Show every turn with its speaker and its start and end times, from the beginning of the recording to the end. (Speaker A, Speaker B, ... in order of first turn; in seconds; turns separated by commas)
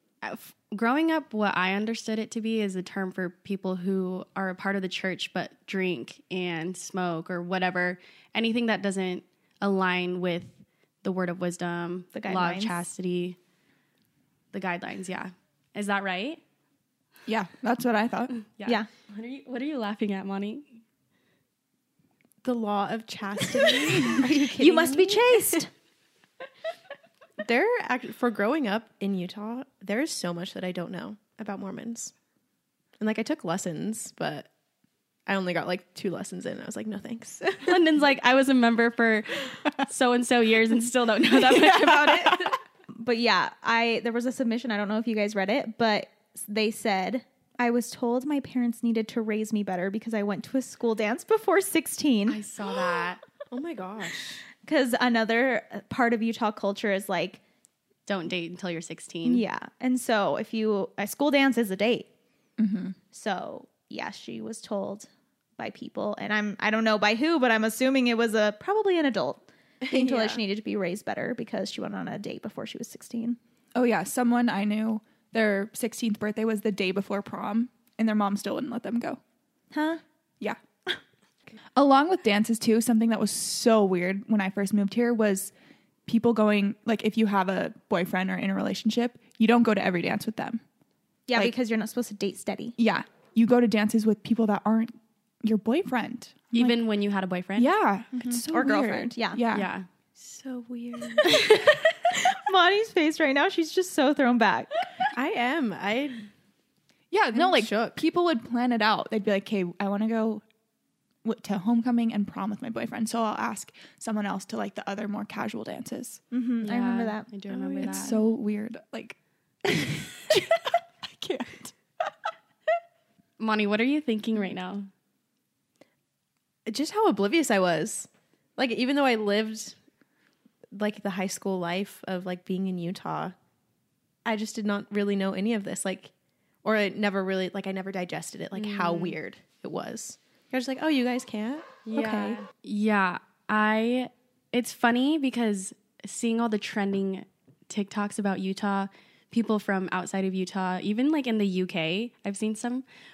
Speaker A: 0.2-13.4, Speaker B: 12.1-12.8, Speaker A: 14.5-16.4, Speaker C: 17.2-18.3, Speaker A: 18.3-20.8, Speaker D: 22.4-25.6, Speaker B: 24.2-25.7, Speaker D: 27.4-32.1, Speaker D: 33.0-34.5, Speaker D: 35.2-37.8, Speaker A: 37.6-42.6, Speaker C: 41.3-42.6, Speaker B: 42.9-52.4, Speaker A: 52.3-53.2, Speaker D: 53.5-54.4, Speaker B: 54.6-57.4, Speaker A: 58.1-59.4, Speaker B: 59.2-62.1, Speaker C: 62.6-62.9, Speaker B: 63.1-73.4, Speaker D: 69.8-70.4, Speaker C: 73.7-79.2, Speaker B: 79.7-80.0, Speaker C: 81.7-85.5, Speaker C: 86.0-90.6, Speaker B: 91.3-92.7, Speaker C: 92.8-96.8, Speaker A: 96.5-97.7, Speaker C: 97.5-99.7, Speaker B: 98.1-99.4, Speaker A: 99.5-101.7, Speaker B: 101.2-101.5, Speaker B: 102.1-104.7, Speaker D: 105.1-106.2, Speaker C: 107.1-110.4, Speaker D: 107.3-108.0, Speaker C: 111.2-116.2, Speaker B: 116.3-117.9, Speaker A: 116.6-118.2, Speaker D: 117.5-117.9, Speaker C: 117.8-122.1, Speaker A: 123.4-124.9, Speaker D: 126.7-129.7, Speaker D: 130.7-133.3, Speaker D: 134.2-136.1, Speaker D: 136.6-142.4, Speaker A: 138.5-139.2, Speaker A: 141.8-152.8